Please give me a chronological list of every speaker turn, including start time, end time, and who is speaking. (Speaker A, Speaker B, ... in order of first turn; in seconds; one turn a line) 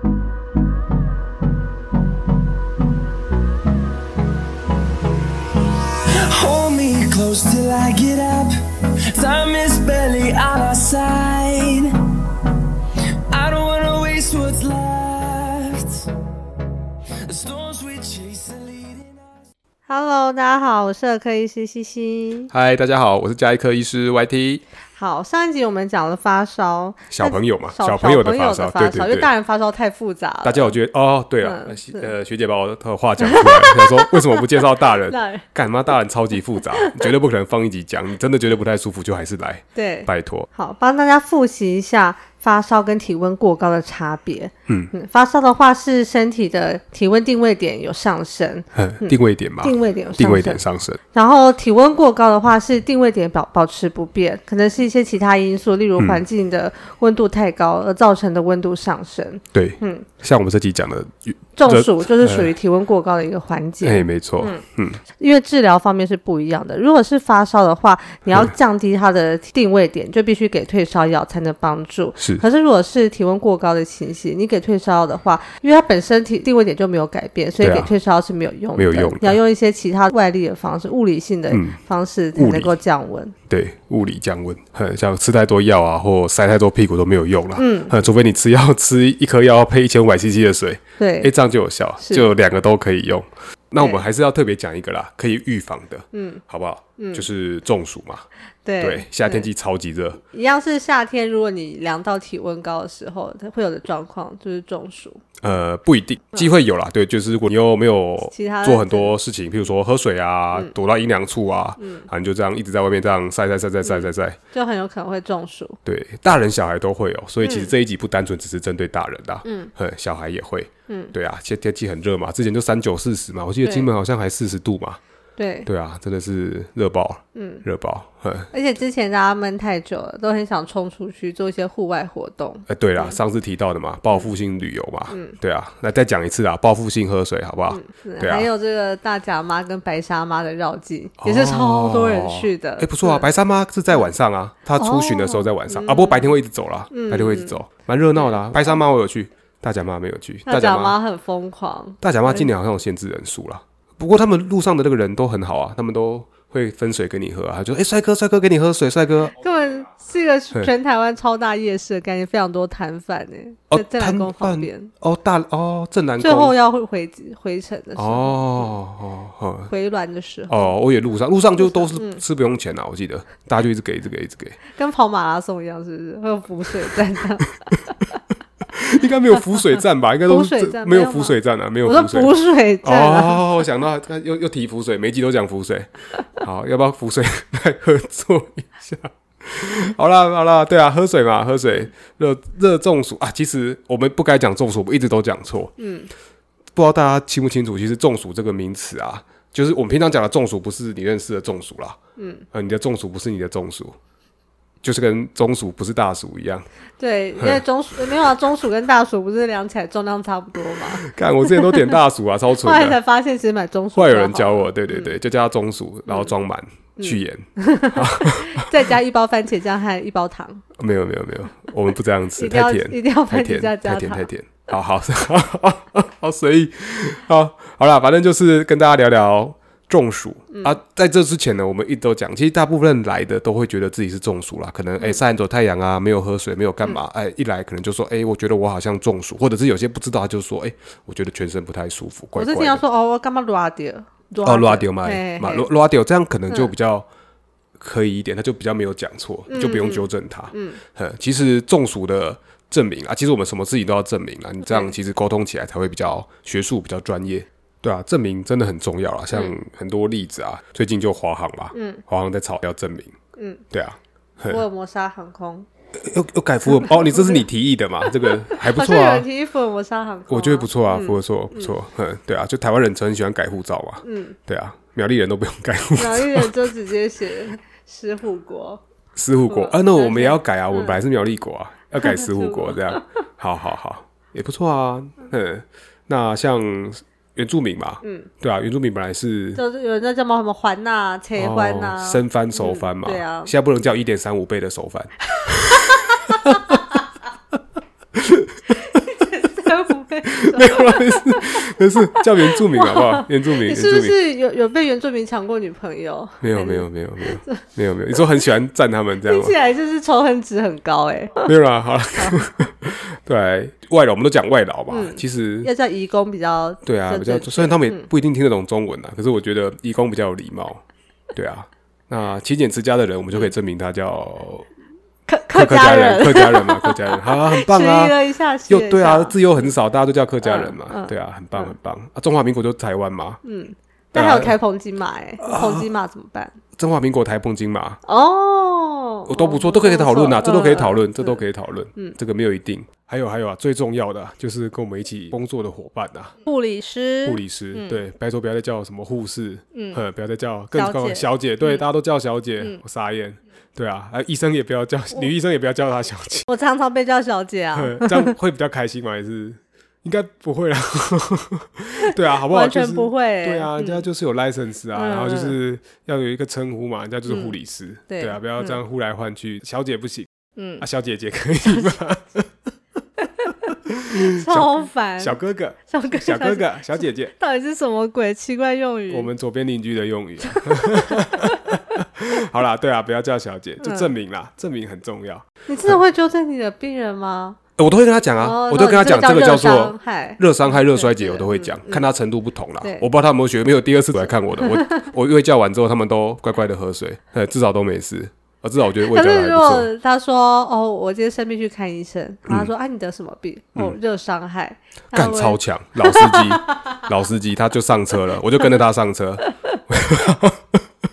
Speaker A: 5.8-12.2
Speaker A: 13.3-16.1
Speaker A: 17.2-19.3
Speaker B: 19.9-22.5
Speaker C: 22.5-24.6
Speaker B: 24.9-30.8
Speaker C: 27.1-29.3
Speaker C: 30.4-40.5
Speaker B: 31.4-32.1
Speaker B: 33.2-34.5
Speaker B: 35.1-35.4
Speaker B: 39.7-50.6
Speaker C: 48.7-51.0
Speaker B: 51.1-60.1
Speaker C: 56.0-56.2
Speaker C: 59.5-62.5
Speaker B: 61.6-64.6
Speaker C: 63.8-65.0
Speaker B: 65.2-83.3
Speaker C: 72.2-72.4
Speaker C: 77.6-77.9
Speaker C: 78.8-79.4
Speaker C: 81.5-81.8
Speaker C: 82.3-82.8
Speaker C: 83.5-98.2
Speaker B: 87.5-87.9
Speaker B: 91.0-91.3
Speaker B: 92.0-92.3
Speaker B: 96.1-96.4
Speaker B: 97.0-97.2
Speaker B: 98.6-99.5
Speaker C: 98.8-100.2
Speaker B: 100.3-105.2
Speaker C: 105.4-114.4
Speaker B: 108.3-109.1
Speaker B: 111.8-112.1
Speaker B: 113.8-115.8
Speaker C: 115.8-125.0
Speaker B: 117.4-117.7
Speaker B: 119.4-119.7
Speaker B: 120.9-121.1
Speaker B: 123.6-123.9
Speaker B: 125.4-125.7
Speaker C: 125.7-128.5
Speaker B: 127.3-127.6
Speaker B: 128.5-133.2
Speaker C: 132.7-138.5
Speaker B: 135.1-135.4
Speaker B: 137.7-143.2
Speaker C: 141.2-151.0
Speaker B: 144.8-146.3
Speaker B: 146.9-147.6
Speaker B: 148.2-148.8
Speaker B: 150.4-152.5
Speaker C: 152.0-159.3
Speaker B: 159.4-164.9
Speaker C: 163.7-166.6
Speaker B: 166.2-168.7
Speaker C: 168.0-169.7
Speaker B: 169.7-170.7
Speaker C: 170.5-174.6
Speaker B: 171.6-172.2
Speaker B: 174.7-177.5
Speaker C: 178.7-195.8
Speaker B: 180.3-183.4
Speaker B: 195.8-196.1
Speaker C: 196.8-202.0
Speaker B: 202.2-202.4
Speaker C: 202.5-203.9
Speaker C: 204.8-206.7
Speaker B: 207.0-211.8
Speaker C: 207.4-207.6
Speaker C: 210.9-213.0
Speaker B: 212.6-215.1
Speaker C: 213.9-218.8
Speaker B: 216.1-216.3
Speaker B: 217.0-220.6
Speaker C: 220.8-242.8
Speaker B: 222.4-224.3
Speaker B: 230.5-230.8
Speaker B: 242.3-245.7
Speaker C: 244.4-247.1
Speaker C: 247.8-263.1
Speaker B: 249.5-250.8
Speaker B: 254.7-254.9
Speaker B: 261.7-262.0
Speaker B: 263.4-263.6
Speaker C: 263.7-264.6
Speaker B: 264.4-265.7
Speaker C: 265.9-269.2
Speaker B: 266.9-267.4
Speaker B: 268.5-271.7
Speaker C: 270.3-276.5
Speaker B: 274.0-274.4
Speaker B: 275.9-278.8
Speaker C: 279.1-289.6
Speaker B: 279.5-281.0
Speaker B: 282.0-283.0
Speaker B: 288.0-288.3
Speaker B: 289.6-293.5
Speaker C: 291.4-296.9
Speaker B: 295.4-296.5
Speaker C: 298.1-298.9
Speaker B: 298.7-307.7
Speaker C: 300.2-304.2
Speaker C: 306.4-309.6
Speaker B: 309.2-311.5
Speaker C: 311.4-315.7
Speaker B: 314.9-318.1
Speaker C: 316.8-320.8
Speaker C: 321.3-324.7
Speaker B: 325.3-329.4
Speaker C: 325.5-333.4
Speaker B: 330.4-331.7
Speaker B: 333.4-336.6
Speaker C: 334.1-334.6
Speaker C: 335.4-335.9
Speaker C: 336.8-338.0
Speaker B: 338.1-341.4
Speaker C: 339.3-346.4
Speaker B: 346.4-348.0
Speaker C: 347.2-356.4
Speaker B: 349.7-350.0
Speaker B: 350.7-351.8
Speaker B: 356.4-358.3
Speaker C: 357.8-372.5
Speaker B: 362.1-364.0
Speaker B: 364.9-365.6
Speaker B: 367.3-367.5
Speaker B: 368.1-368.8
Speaker B: 370.6-370.8
Speaker C: 373.4-377.3
Speaker B: 374.1-375.4
Speaker B: 375.9-379.3
Speaker C: 379.1-386.0
Speaker B: 380.5-381.4
Speaker B: 383.8-384.1
Speaker B: 385.7-387.6
Speaker C: 387.8-399.9
Speaker B: 388.4-392.1
Speaker B: 394.6-395.1
Speaker B: 399.1-406.9
Speaker C: 402.4-402.7
Speaker C: 405.1-410.8
Speaker B: 409.4-409.8